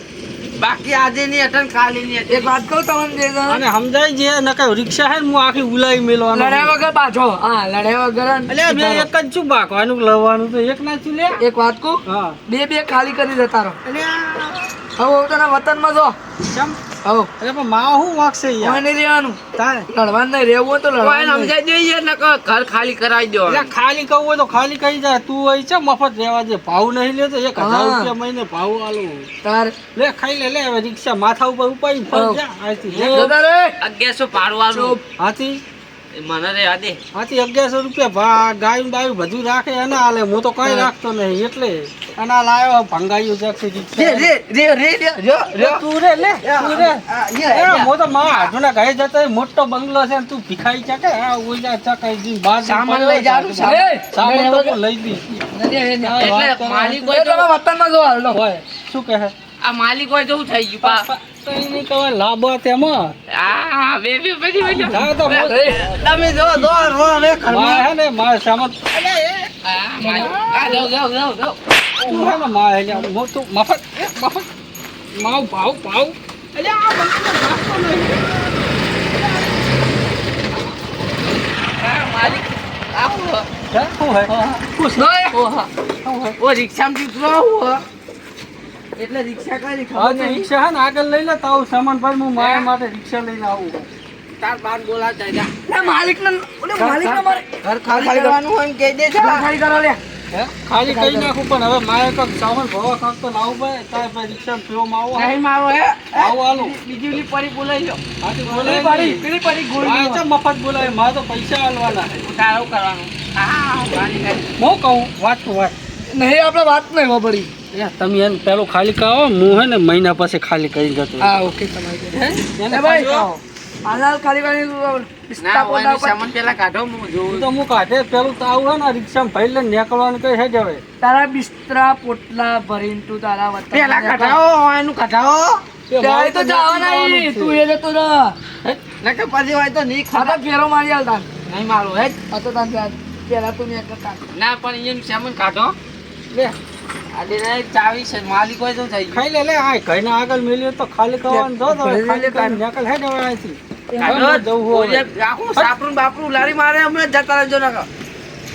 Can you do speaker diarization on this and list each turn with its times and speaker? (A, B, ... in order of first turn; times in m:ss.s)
0:00.6-0:02.5 A
0:02.3-0:03.6 B
0:03.5-0:06.7 C
0:06.3-0:09.1 B
0:08.5-0:11.4 C
0:11.4-0:13.8 B
0:12.1-0:12.4 C
0:13.9-0:14.7 A
0:15.0-0:16.2 B
0:16.4-0:16.8 C
0:17.0-0:17.3 B
0:17.4-0:18.9 C
0:18.6-0:21.5 B
0:19.6-0:19.9 C
0:21.0-0:23.7 A
0:23.5-0:29.3 C
0:27.6-0:28.1 B
0:29.4-0:29.8 B
0:30.0-0:33.3 C
0:32.1-0:32.4 B
0:32.9-0:33.7 B
0:33.1-0:35.0 A
0:34.7-0:35.0 B
0:35.2-0:35.6 C
0:36.1-0:37.0 A
0:37.1-0:44.3 C
0:40.6-0:40.9 B
0:44.0-0:45.9 A
0:45.6-0:55.2 C
0:46.4-0:48.5 A
0:52.6-0:53.9 A
0:53.6-0:54.8 B
0:55.3-0:56.3 B
0:56.0-0:57.1 C
0:56.2-0:57.5 A
0:57.1-0:58.4 B
0:58.3-0:59.4 C
0:59.6-1:01.1 A
1:00.8-1:03.1 C
1:03.3-1:07.9 A
1:04.7-1:09.5 C
1:05.3-1:05.9 B
1:09.6-1:12.4 A
1:10.0-1:10.9 C
1:12.1-1:14.5 C
1:15.2-1:18.7 C
1:21.8-1:23.5 A
1:23.7-1:25.1 C
1:24.3-1:24.7 A
1:25.0-1:25.4 B
1:25.3-1:25.7 A
1:26.0-1:26.4 C
1:26.4-1:27.8 A
1:29.0-1:30.5 A
1:29.9-1:33.9 C
1:32.4-1:32.7 A
1:34.4-1:35.5 A
1:35.7-1:38.4 B
1:36.8-1:39.5 A
1:39.2-1:40.0 B
1:40.3-1:45.4 C
1:40.8-1:41.3 B
1:45.1-1:48.0 A
1:46.1-1:46.8 C
1:48.2-1:49.3 C
1:48.5-1:50.2 B
1:49.8-1:52.3 C
1:52.2-1:54.5 A
1:54.6-1:55.8 C
1:56.1-1:57.5 B
1:57.7-2:01.3 C
2:01.2-2:02.2 B
2:02.1-2:03.4 A
2:02.6-2:03.3 C
2:02.7-2:03.1 B
2:03.8-2:06.2 B
2:05.4-2:07.5 A
2:07.3-2:10.8 C
2:11.0-2:14.4 B
2:13.7-2:15.6 A
2:15.9-2:17.6 C
2:15.9-2:18.4 B
2:18.6-2:20.4 A
2:20.1-2:21.3 B
2:21.5-2:22.2 A
2:22.3-2:24.2 B
2:24.3-2:25.8 A
2:27.1-2:29.2 A
2:29.1-2:35.7 C
2:31.3-2:32.6 B
2:33.9-2:34.2 B
2:34.0-2:37.9 A